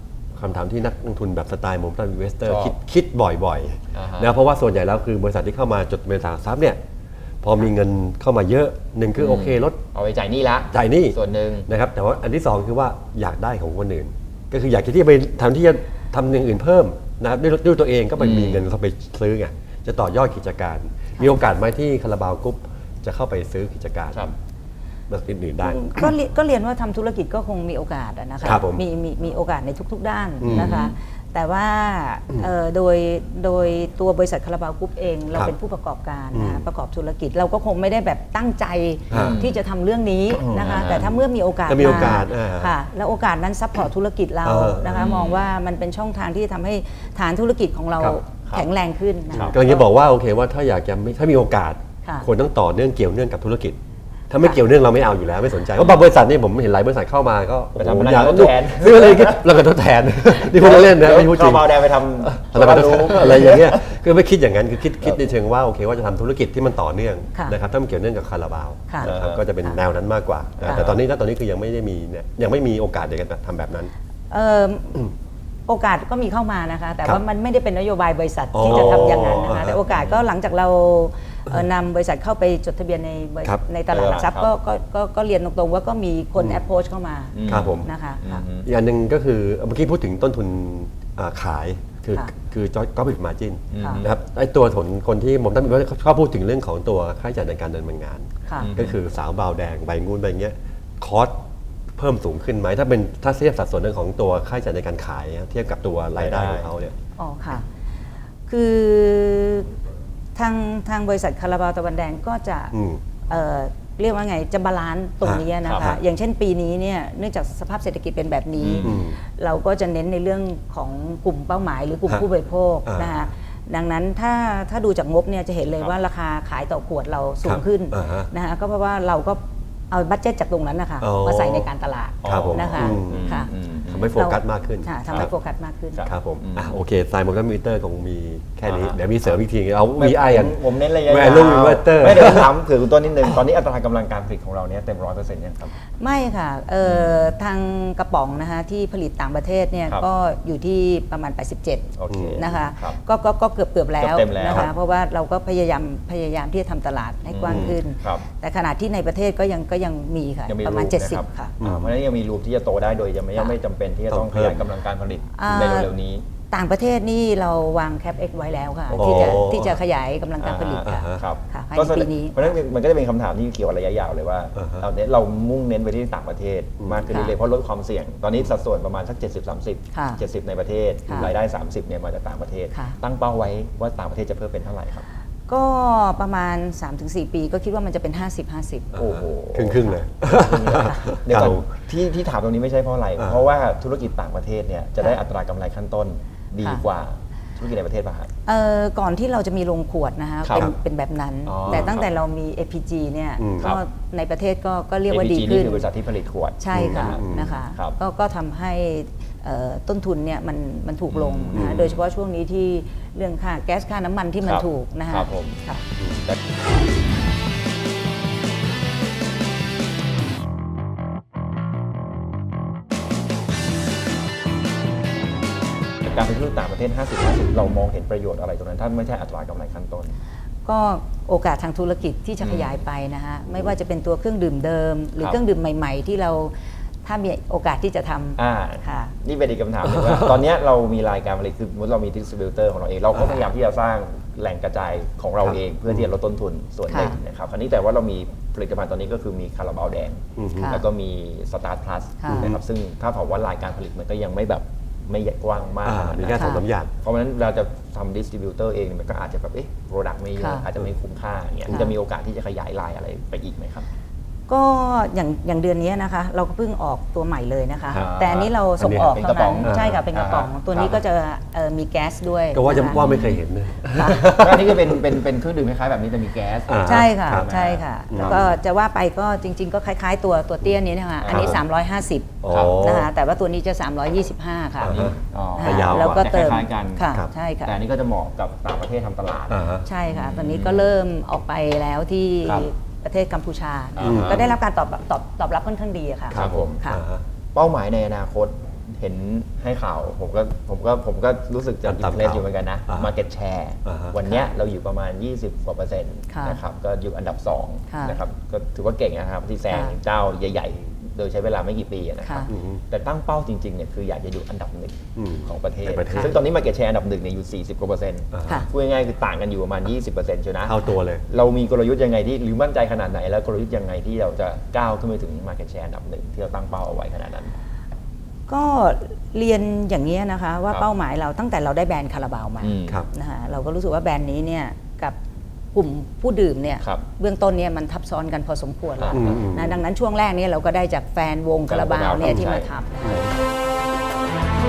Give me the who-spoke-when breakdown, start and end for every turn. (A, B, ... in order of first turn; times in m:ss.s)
0:00.4-0:06.8 A
0:02.5-0:02.8 B
0:03.9-0:04.3 B
0:07.4-0:09.8 A
0:09.2-0:11.7 B
0:10.7-0:24.3 A
0:18.2-0:18.6 B
0:25.1-0:26.1 A
0:25.6-0:49.8 C
0:28.4-0:28.8 A
0:30.4-0:30.8 A
0:30.4-0:31.0 B
0:36.3-0:36.6 A
0:39.1-0:39.4 A
0:39.1-0:39.6 B
0:40.4-0:41.2 B
0:40.7-0:41.2 A
0:41.7-0:42.8 A
0:44.4-0:45.1 A
0:44.9-0:45.4 B
0:49.3-0:49.6 B
0:49.4-0:53.8 A
0:54.3-1:13.9 A
0:57.8-0:59.5 B
1:00.4-1:03.8 B
1:09.0-1:09.4 B
1:10.6-1:11.0 B
1:14.3-1:15.1 C
1:15.7-1:28.4 C
1:18.5-1:20.1 A
1:18.7-1:19.1 B
1:23.9-1:24.5 B
1:27.3-1:28.7 B
1:27.5-1:27.9 A
1:28.6-1:41.4 A
1:33.7-1:34.2 B
1:33.8-1:34.0 C
1:38.5-1:38.7 C
1:38.6-1:39.0 B
1:42.0-1:47.0 A
1:46.2-1:46.7 B
1:47.2-1:47.7 C
1:48.5-1:49.7 C
1:50.4-1:52.8 C
1:52.7-1:53.0 A
1:53.3-2:13.5 C
1:55.2-1:56.0 A
1:55.6-1:55.9 B
1:58.6-1:59.0 B
1:58.8-1:59.2 A
2:02.9-2:03.2 A
2:07.4-2:08.3 A
2:11.0-2:11.7 A
2:12.2-2:14.2 B
2:12.2-2:13.3 A
2:13.9-2:15.3 A
2:14.2-2:16.1 C
2:15.9-2:16.8 B
2:16.1-2:22.6 A
2:18.7-2:19.4 B
2:20.0-2:25.7 B
2:26.0-2:41.6 C
2:26.8-2:27.3 B
2:32.0-2:33.0 B
2:32.1-2:32.4 A
2:34.0-2:34.7 B
2:37.3-2:38.3 B
2:37.5-2:37.8 A
2:40.5-2:46.2 B
2:41.6-2:42.0 A
2:44.1-2:44.6 A
2:45.4-2:45.9 C
2:46.5-2:52.5 C
2:48.9-2:49.5 B
2:49.0-2:49.8 A
2:50.4-3:05.1 B
2:50.8-2:51.2 A
2:54.6-2:54.9 A
2:56.8-2:57.1 A
2:59.9-3:00.2 C
3:05.5-3:08.9 C
3:08.9-3:11.7 A
3:09.0-3:18.3 B
3:18.5-3:25.9 C
3:20.4-3:20.7 B
3:21.5-3:22.1 B
3:23.4-3:23.8 A
3:25.1-3:28.0 B
3:26.6-3:35.8 C
3:26.7-3:27.6 A
3:31.1-3:32.0 B
3:31.5-3:31.9 A
3:34.4-3:35.6 B
3:36.0-3:36.2 A
3:46.0-3:50.2 B
3:50.7-3:59.1 C
3:52.4-3:52.8 B
3:58.4-4:23.9 B
4:06.9-4:07.2 C
4:10.4-4:10.8 A
4:10.5-4:10.8 C
4:12.2-4:12.5 C
4:15.8-4:16.9 A
4:16.3-4:16.6 C
4:20.4-4:20.7 C
4:24.5-4:33.0 C
4:27.9-4:28.5 B
4:28.8-4:30.0 A
4:29.1-4:31.0 B
4:32.5-4:35.1 A
4:32.9-4:33.4 B
4:34.0-4:34.3 C
4:34.3-4:38.5 B
4:36.7-4:37.5 A
4:36.8-4:47.8 C
4:38.1-4:38.5 A
4:41.2-4:41.6 B
4:41.3-4:41.6 A
4:42.4-4:43.1 A
4:42.5-4:42.8 B
4:44.8-4:47.1 B
4:44.8-4:46.6 A
4:47.6-4:50.9 B
4:49.5-4:49.8 A
4:49.8-4:57.0 C
4:54.0-4:54.5 B
4:54.0-4:54.5 A
4:56.3-4:57.2 A
4:56.3-4:56.8 B
4:57.5-5:27.6 B
5:01.8-5:03.1 A
5:03.8-5:04.2 A
5:06.3-5:06.6 C
5:07.9-5:08.2 C
5:09.7-5:10.0 C
5:12.2-5:12.5 C
5:12.5-5:12.8 A
5:15.2-5:16.4 A
5:18.3-5:18.7 A
5:20.7-5:21.2 A
5:28.5-5:35.2 C
5:32.6-5:33.0 B
5:35.7-5:43.2 C
5:39.0-5:39.4 B
5:39.1-5:39.8 A
5:41.7-5:42.7 B
5:43.0-5:43.3 A